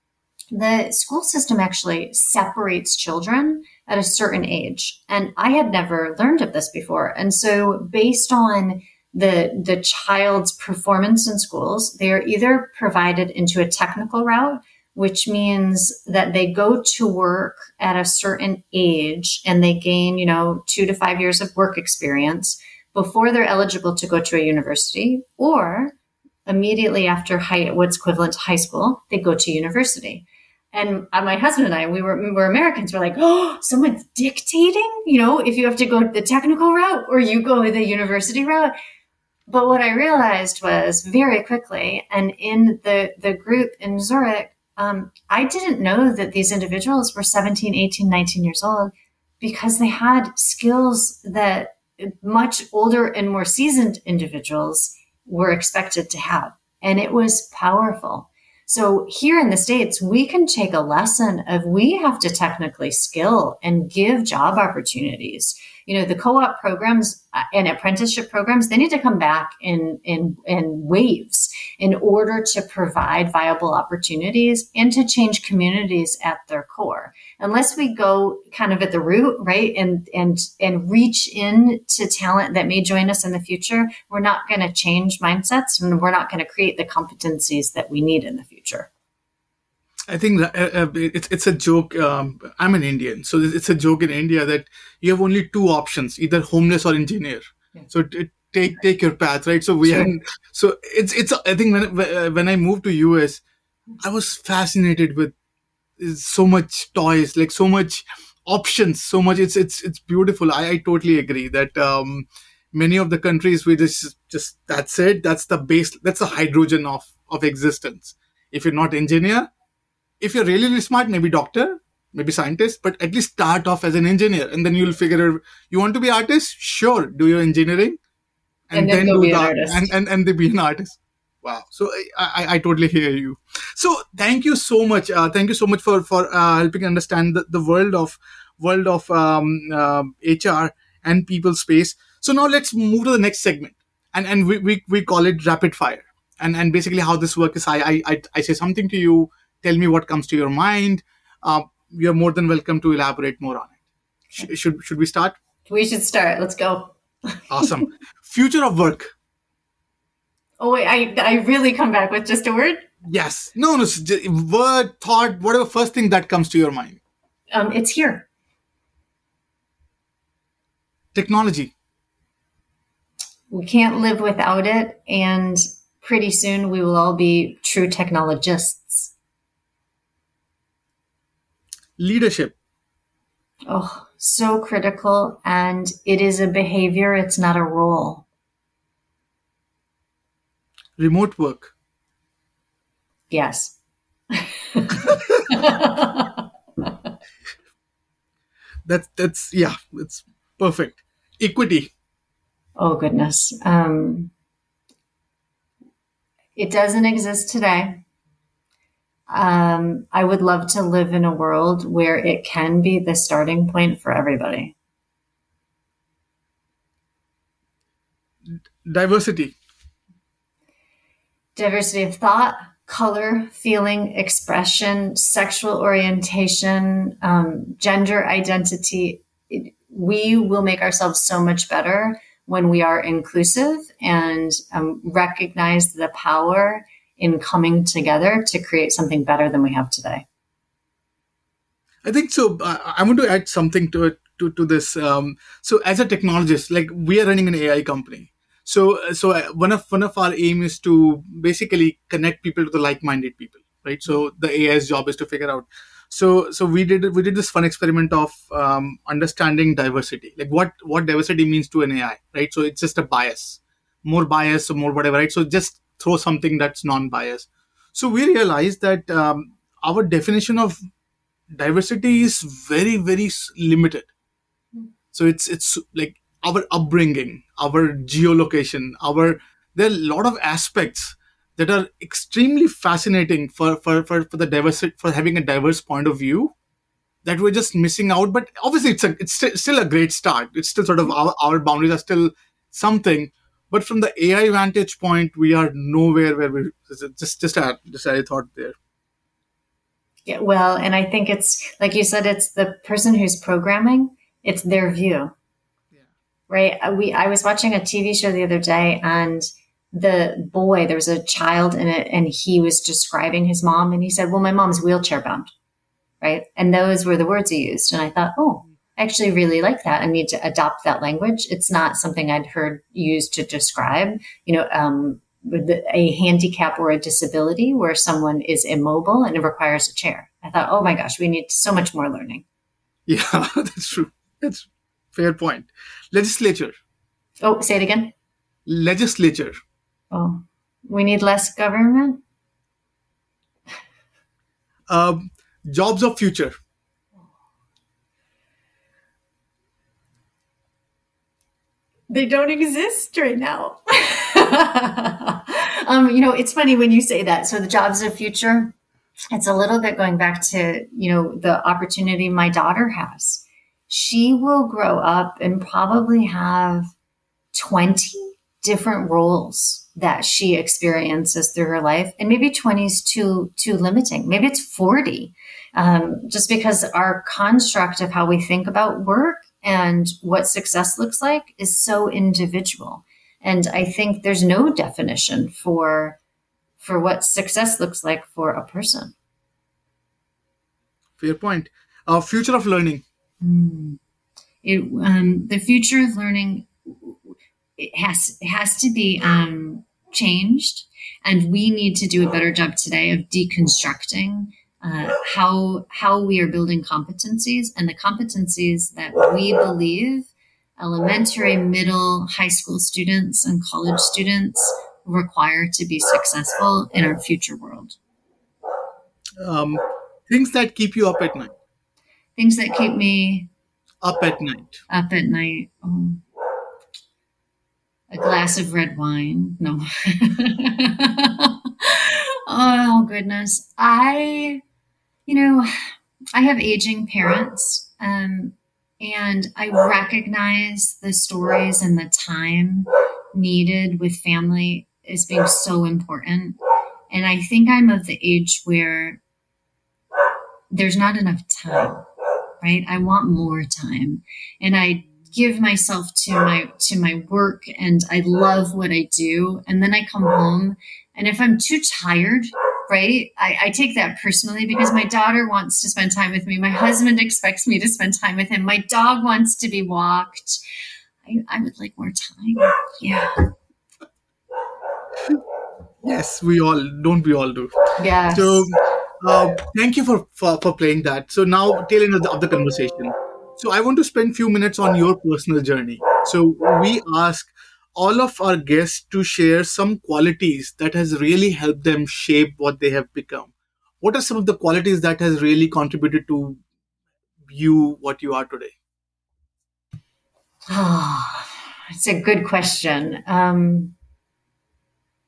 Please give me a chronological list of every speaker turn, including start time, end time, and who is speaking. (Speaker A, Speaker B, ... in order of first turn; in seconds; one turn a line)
Speaker A: 0.5-25.9
Speaker A: 26.4-38.7
Speaker A: 39.5-88.9
Speaker B: 90.1-103.4
Speaker A: 99.9-100.1
Speaker B: 104.0-105.3
Speaker B: 106.0-119.5
Speaker B: 120.2-128.0
Speaker B: 128.7-153.8
Speaker A: 128.7-129.9
Speaker B: 154.4-155.4
Speaker A: 155.7-157.8
Speaker B: 157.5-159.1
Speaker A: 160.6-162.9
Speaker B: 163.0-167.0
Speaker A: 167.5-168.2
Speaker B: 171.1-171.7
Speaker A: 173.5-179.1
Speaker B: 182.0-182.5
Speaker A: 183.7-188.2
Speaker B: 191.0-191.7
Speaker A: 193.3-193.7
Speaker A: 194.3-196.4
Speaker B: 198.9-201.9
Speaker A: 202.8-204.3
Speaker A: 206.6-208.0
Speaker A: 209.3-214.7
Speaker B: 218.5-219.5
Speaker A: 221.6-240.2
Speaker B: 242.0-270.8
Speaker B: 271.5-274.1
Speaker B: 275.1-286.5
Speaker B: 287.2-298.8
Speaker A: 300.3-305.3
Speaker A: 306.5-315.5
Speaker A: 316.2-332.4
Speaker B: 333.1-336.7
Speaker A: 337.4-338.1
Speaker B: 338.6-339.6
Speaker A: 340.1-342.2
Speaker B: 344.9-346.6
Speaker A: 352.1-358.7
Speaker A: 359.3-366.9
Speaker A: 367.5-386.2
Speaker A: 386.8-389.1
Speaker B: 391.2-393.0
Speaker A: 393.4-394.0
Speaker A: 394.6-397.2
Speaker A: 397.8-418.0
Speaker B: 419.4-421.5
Speaker A: 422.4-423.5
Speaker B: 424.0-424.8
Speaker A: 424.9-426.2
Speaker A: 428.1-434.6
Speaker A: 435.3-435.7
Speaker A: 436.3-446.6
Speaker A: 447.1-449.2
Speaker A: 450.7-452.1
Speaker A: 452.6-470.6
Speaker A: 471.2-473.5
Speaker B: 476.0-477.7
Speaker A: 478.0-478.7
Speaker B: 478.3-496.6
Speaker B: 497.5-498.7
Speaker A: 500.7-503.9